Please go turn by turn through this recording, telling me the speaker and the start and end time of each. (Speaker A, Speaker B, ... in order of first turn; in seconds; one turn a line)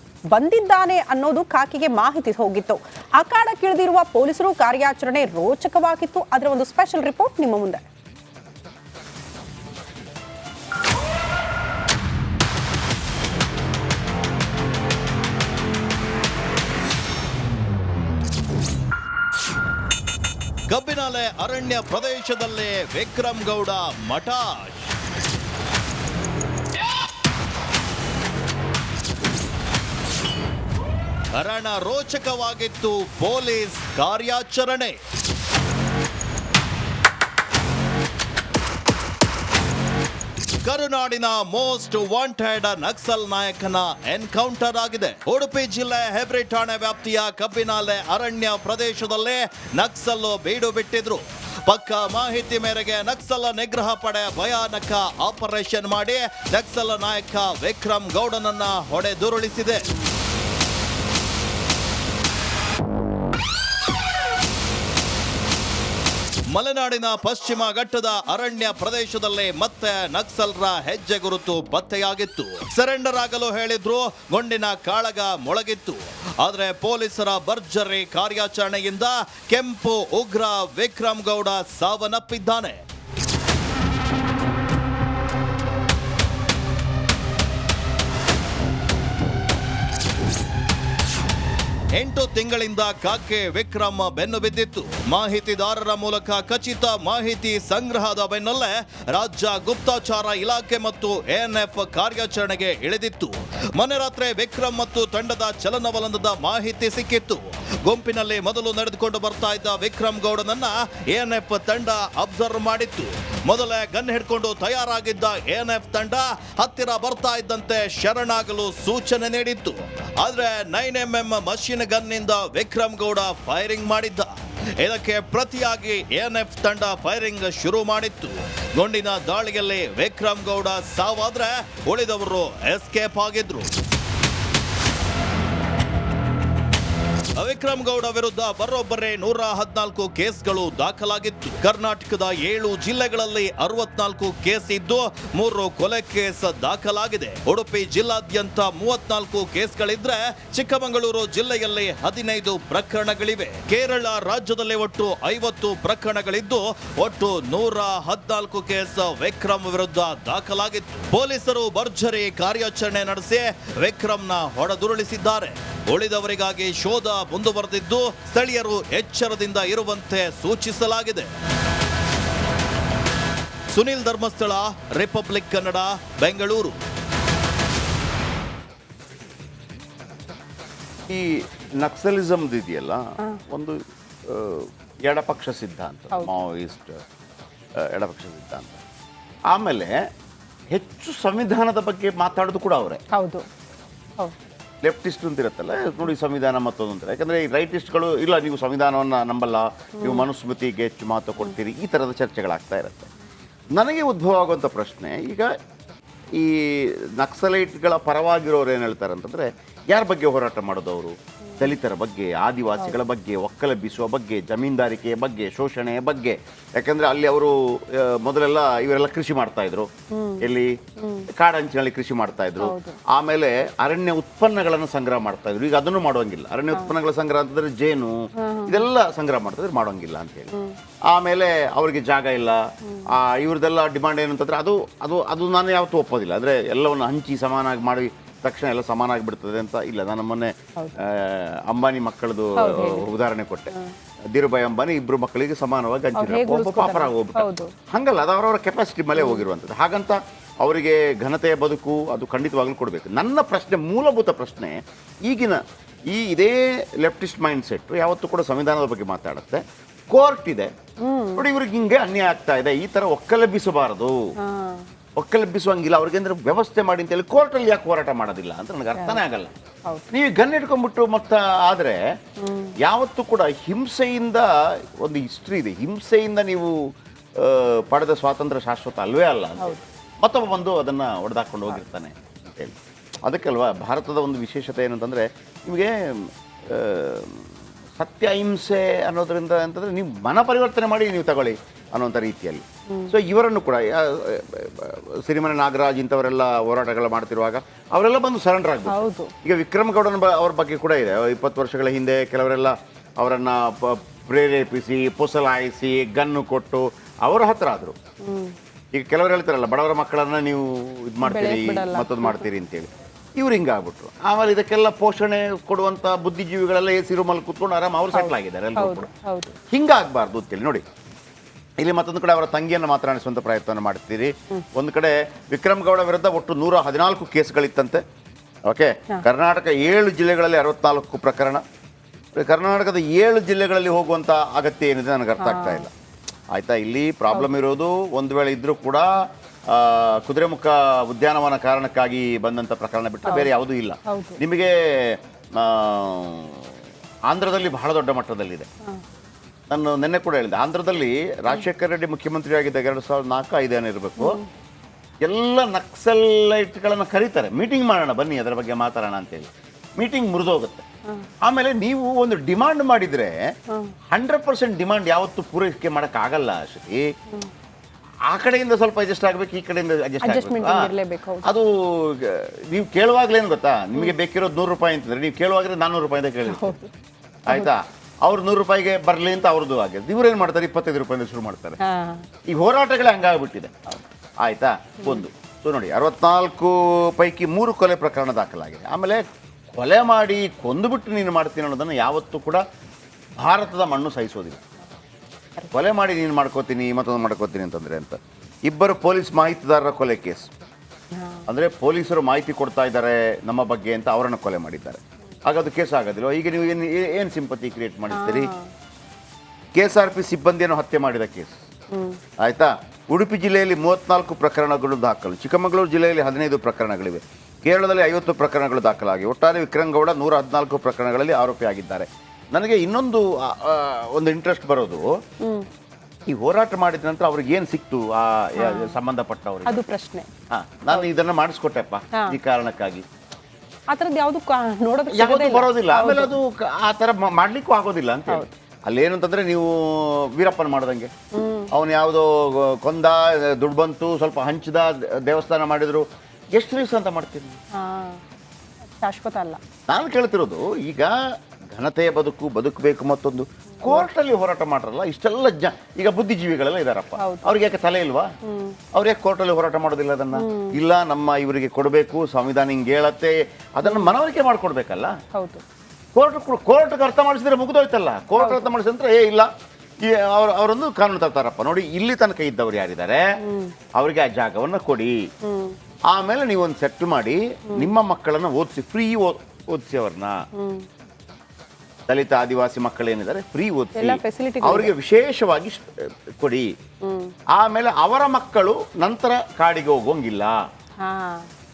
Speaker A: 0.3-7.8
Speaker B: 20.7-24.9
Speaker B: 31.3-35.0
Speaker B: 40.6-59.9
Speaker B: 66.5-82.8
Speaker B: 92.0-133.7
Speaker B: 137.4-171.3
Speaker B: 173.7-176.8
Speaker C: 181.1-187.0
Speaker C: 187.8-188.8
Speaker C: 189.5-189.9
Speaker C: 190.7-193.0
Speaker A: 193.1-193.4
Speaker C: 194.8-203.1
Speaker A: 200.0-200.2
Speaker C: 203.7-205.5
Speaker C: 206.4-219.9
Speaker A: 220.1-220.5
Speaker C: 220.4-220.7
Speaker A: 221.0-221.3
Speaker C: 221.3-230.5
Speaker A: 222.6-223.0
Speaker A: 228.4-228.9
Speaker C: 231.1-243.7
Speaker A: 242.6-243.1
Speaker C: 244.3-260.7
Speaker A: 246.2-247.7
Speaker A: 249.2-249.5
Speaker A: 261.0-261.5
Speaker C: 261.4-264.1
Speaker A: 264.4-264.9
Speaker C: 265.2-269.5
Speaker A: 268.9-269.2
Speaker C: 270.1-272.0
Speaker A: 272.4-272.7
Speaker C: 272.8-274.5
Speaker C: 275.0-276.8
Speaker C: 277.4-282.7
Speaker C: 283.2-308.0
Speaker A: 298.9-299.3
Speaker A: 308.2-308.6
Speaker C: 308.9-319.1
Speaker A: 311.2-312.5
Speaker A: 318.1-319.6
Speaker C: 319.7-320.8
Speaker C: 321.8-328.0
Speaker C: 328.7-331.6
Speaker C: 332.4-335.9
Speaker A: 335.4-335.9
Speaker C: 336.5-339.1
Speaker C: 339.7-346.7
Speaker A: 343.2-343.5
Speaker A: 344.1-344.4
Speaker C: 347.3-348.7
Speaker C: 349.7-354.4
Speaker A: 354.2-354.5
Speaker C: 355.2-360.9
Speaker C: 361.4-363.4
Speaker C: 364.1-367.0
Speaker C: 368.3-370.9
Speaker A: 370.2-371.5
Speaker C: 371.4-376.8
Speaker A: 376.5-376.9
Speaker C: 377.5-381.8
Speaker A: 381.9-382.3
Speaker C: 382.5-383.8
Speaker C: 384.4-392.6
Speaker C: 393.4-394.6
Speaker C: 395.7-400.5
Speaker A: 401.1-401.5
Speaker C: 401.5-408.5
Speaker A: 408.1-408.7
Speaker C: 409.8-411.5
Speaker A: 411.9-412.2
Speaker C: 412.4-425.1
Speaker C: 426.3-429.9
Speaker A: 428.6-429.0
Speaker A: 429.7-430.3
Speaker C: 430.5-433.1
Speaker A: 433.9-436.4
Speaker C: 435.1-441.1
Speaker A: 441.3-441.7
Speaker C: 441.7-447.6
Speaker A: 447.8-448.2
Speaker A: 449.0-449.6
Speaker C: 449.9-451.1
Speaker C: 451.7-458.3
Speaker A: 453.8-454.1
Speaker A: 457.2-457.5
Speaker A: 458.5-458.8
Speaker C: 458.9-465.1
Speaker A: 460.4-460.8
Speaker A: 463.9-464.1
Speaker A: 465.4-465.6
Speaker C: 466.1-469.5
Speaker A: 468.4-468.7
Speaker C: 470.1-473.2
Speaker A: 473.4-473.8
Speaker C: 473.9-475.1
Speaker A: 475.5-475.8
Speaker C: 476.1-480.4
Speaker A: 480.6-480.9
Speaker C: 482.1-486.7
Speaker A: 484.0-484.9
Speaker A: 487.1-487.3
Speaker C: 487.6-490.6
Speaker A: 491.0-491.5